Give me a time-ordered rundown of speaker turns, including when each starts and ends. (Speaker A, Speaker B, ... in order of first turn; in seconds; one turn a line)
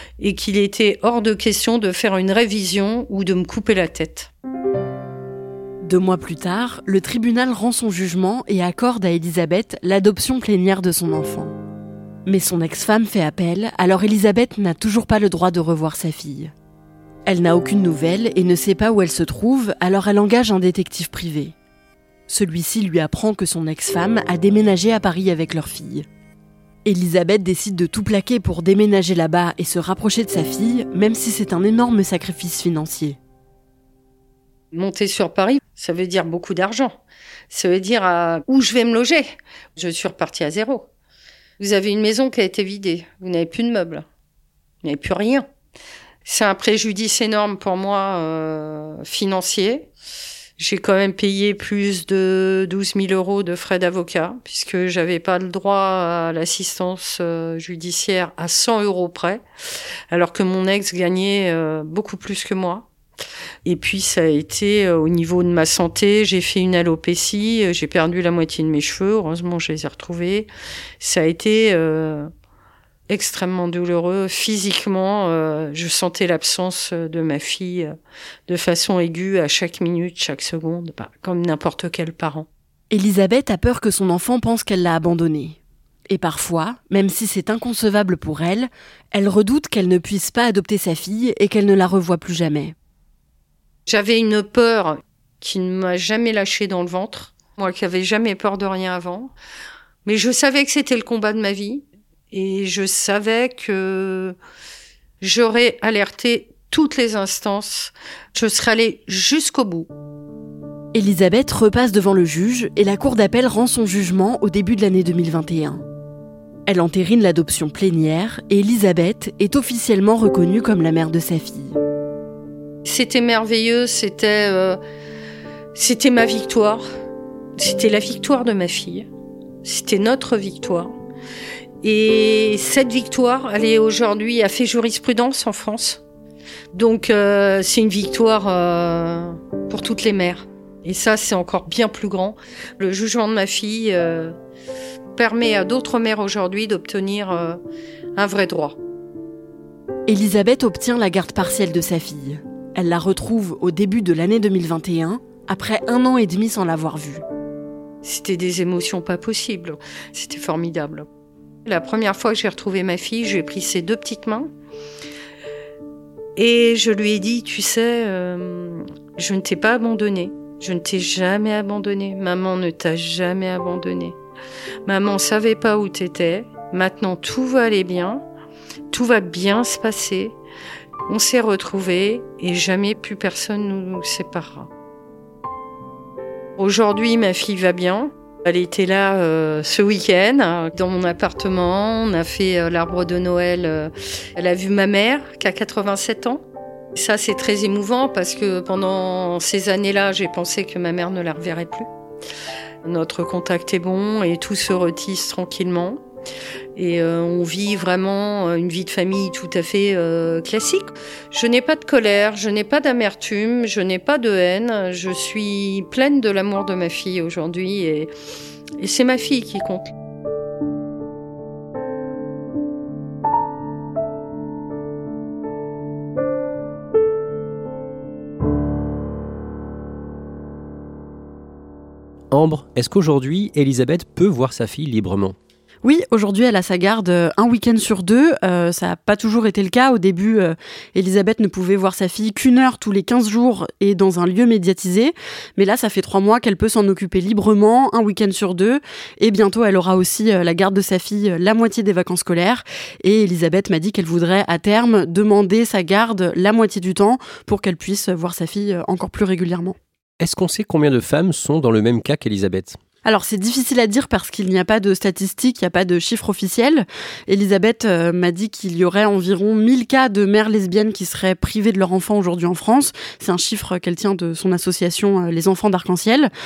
Speaker A: 0.2-4.3
Speaker B: 5.8-11.6
Speaker B: 12.2-16.5
Speaker B: 17.2-21.5
Speaker B: 22.3-26.1
Speaker B: 26.8-33.2
Speaker A: 34.7-40.9
Speaker A: 41.6-44.0
Speaker A: 44.8-45.4
Speaker A: 46.2-49.9
Speaker A: 50.6-59.4
Speaker A: 60.1-62.9
Speaker A: 63.6-70.5
Speaker A: 71.0-72.3
Speaker A: 73.1-77.9
Speaker A: 78.5-82.5
Speaker B: 82.9-85.6
Speaker B: 86.1-92.7
Speaker A: 93.8-99.3
Speaker A: 100.0-104.3
Speaker A: 105.2-109.9
Speaker B: 110.9-115.8
Speaker B: 116.7-121.8
Speaker A: 122.8-124.8
Speaker A: 125.7-126.8
Speaker A: 127.6-129.1
Speaker A: 129.6-130.9
Speaker A: 131.8-136.0
Speaker A: 136.7-144.3
Speaker A: 145.1-147.6
Speaker A: 148.1-148.8
Speaker B: 150.1-157.2
Speaker A: 158.0-161.1
Speaker A: 161.6-164.5
Speaker A: 166.3-174.2
Speaker A: 174.8-178.2
Speaker A: 178.9-180.4
Speaker A: 181.1-184.7
Speaker A: 186.6-201.9
Speaker A: 202.8-206.0
Speaker A: 206.7-218.1
Speaker A: 218.8-219.9
Speaker C: 232.3-235.3
Speaker B: 235.8-259.8
Speaker C: 260.2-262.8
Speaker B: 263.0-276.3